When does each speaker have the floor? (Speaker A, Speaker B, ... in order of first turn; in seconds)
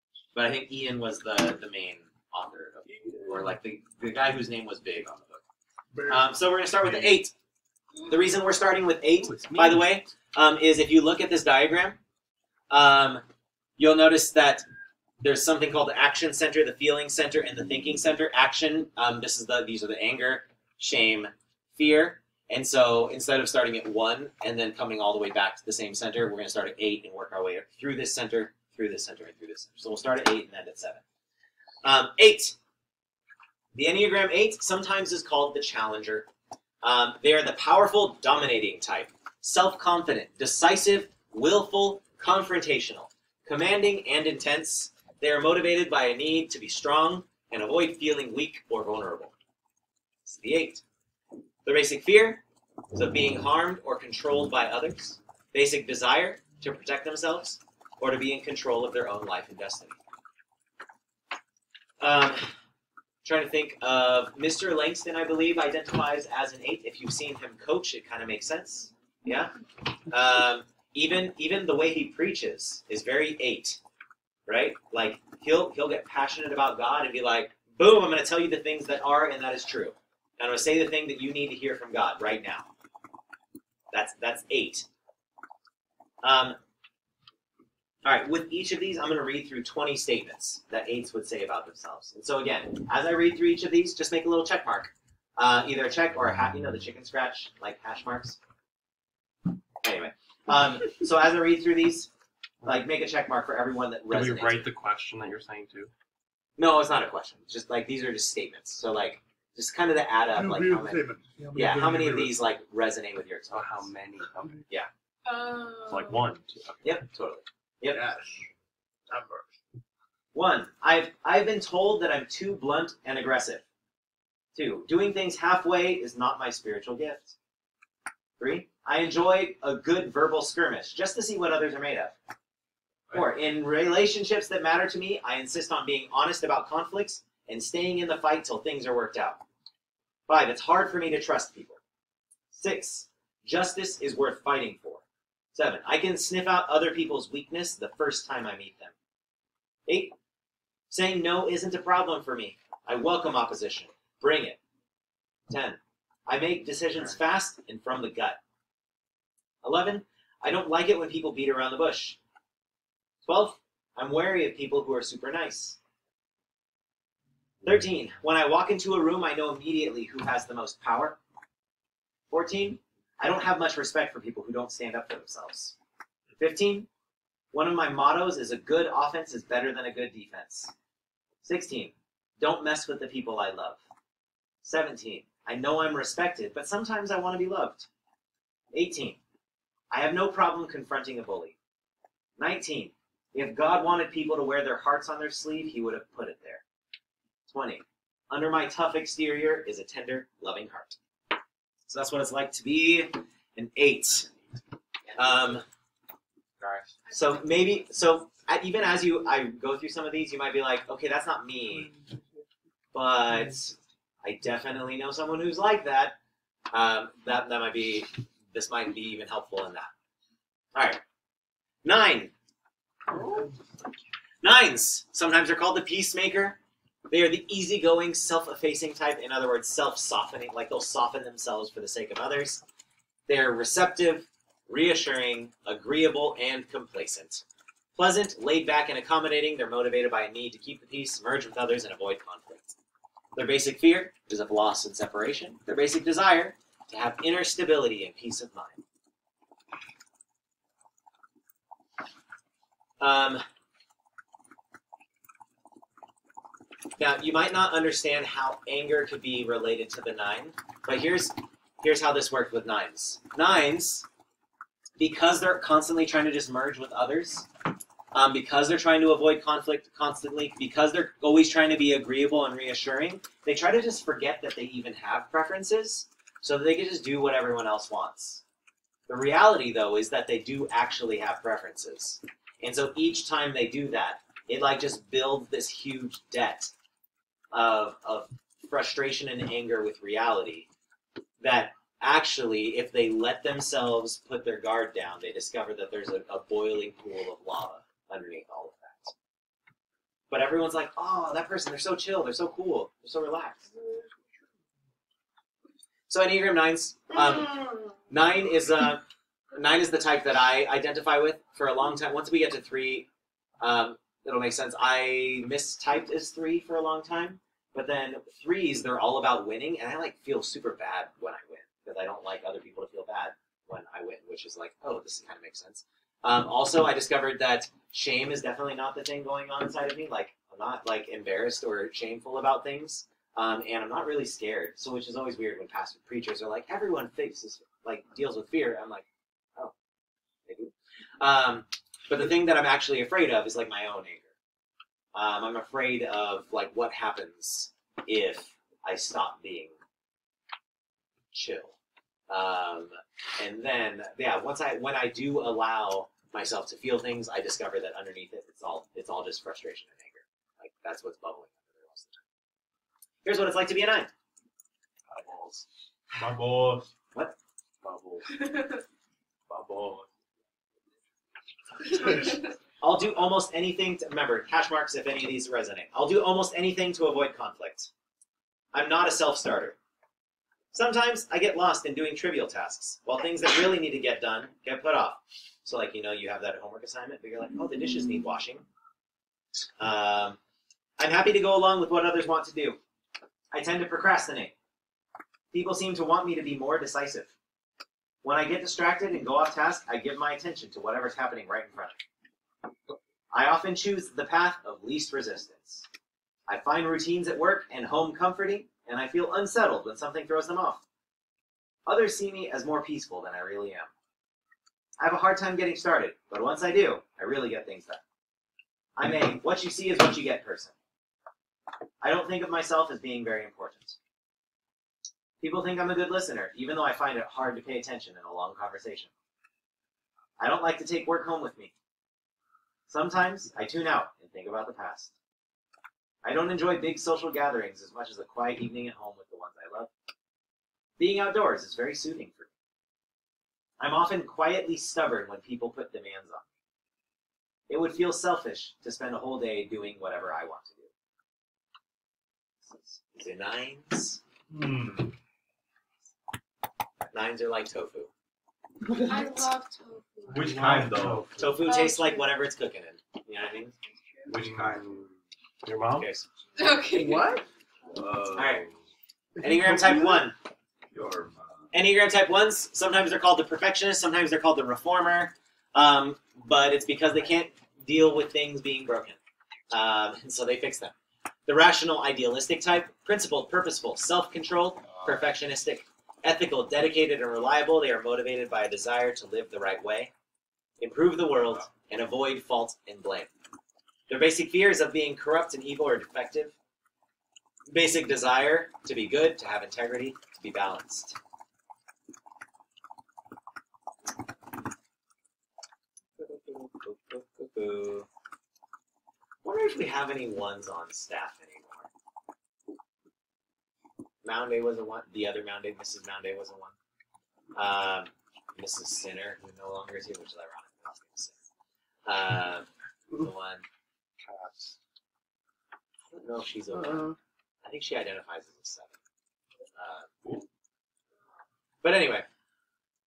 Speaker A: 0.3-5.4, 6.1-7.3, 8.1-12.0, 12.7-13.2, 13.8-14.7, 15.2-31.0, 31.8-32.6, 33.8-36.3, 36.8-49.3, 50.2-50.8, 51.6-60.0, 62.0-62.5, 63.2-69.5, 70.1-73.8, 74.5-82.7, 83.9-84.9, 86.2-86.6, 88.0-98.4, 99.8-102.1, 102.7-104.7, 106.6-113.9, 116.8-118.0, 120.3-123.6, 124.5-127.3, 128.4-132.2, 133.1-139.4, 140.3-141.8, 142.5-145.0, 145.5-148.9, 149.9-150.1, 150.9-154.6, 155.5-158.4, 159.6-162.2, 163.2-165.8, 167.6-171.2, 172.3-175.8, 176.4-176.9, 177.5-180.7, 181.4-183.8, 184.6-187.9, 188.7-189.2, 189.9-191.6, 192.4-196.6, 197.5-201.0, 201.9-204.3, 205.2-205.7, 207.1-211.9, 212.9-216.2, 216.7-219.9, 220.8-221.0, 221.8-222.3, 224.4-226.6, 227.1-232.6, 233.3-237.4, 237.9-242.8, 243.4-248.8, 253.0-253.4, 257.0-264.1, 265.0-267.5, 268.1-278.4, 279.1-286.7, 287.5-290.7, 291.4-299.1, 300.3-303.7, 306.1-309.0, 309.5-313.1, 313.6-339.0, 340.5-344.3, 345.1-349.7, 351.3-351.8, 352.3-362.2, 363.2-364.1, 372.8-377.9, 378.7-379.8, 380.7-388.6, 389.8-390.4, 391.0-392.8, 393.5-394.5, 395.5-397.3, 398.2-402.0, 403.3-405.9, 406.5-410.8, 411.9-413.9, 415.0-418.0, 419.0-420.7, 422.0-424.0, 425.4-429.1, 430.4-431.7, 432.9-435.1, 436.2-439.9, 441.0-442.5, 443.8-446.4, 447.7-450.9, 452.6-454.2, 457.1-458.1, 461.4-463.8, 465.9-466.3, 468.4-468.7, 469.4-470.4, 471.7-479.2, 479.7-480.9, 481.5-490.1, 490.8-493.3, 494.1-496.6, 497.7-501.2, 506.2-508.1, 509.4-511.9, 514.2-516.7, 517.5-521.4, 522.1-523.6, 526.1-528.9, 529.8-530.1, 531.8-532.3
Speaker B: 6.0-6.2, 110.3-112.4, 114.4-114.6, 117.9-118.4, 119.1-119.5, 466.9-467.4, 469.4-470.1, 526.7-527.2
Speaker C: 9.2-9.8, 104.1-105.9, 113.5-114.7, 115.9-117.0, 206.6-206.9, 365.1-365.6, 367.8-368.3, 460.3-461.6, 464.3-466.1, 524.2-524.8
Speaker D: 115.3-116.2, 459.0-460.6, 461.6-462.3, 463.9-464.3, 466.6-467.4
Speaker E: 366.1-366.9, 369.5-370.1, 454.5-455.1, 460.3-461.3, 464.3-464.9, 467.9-468.8, 470.9-471.7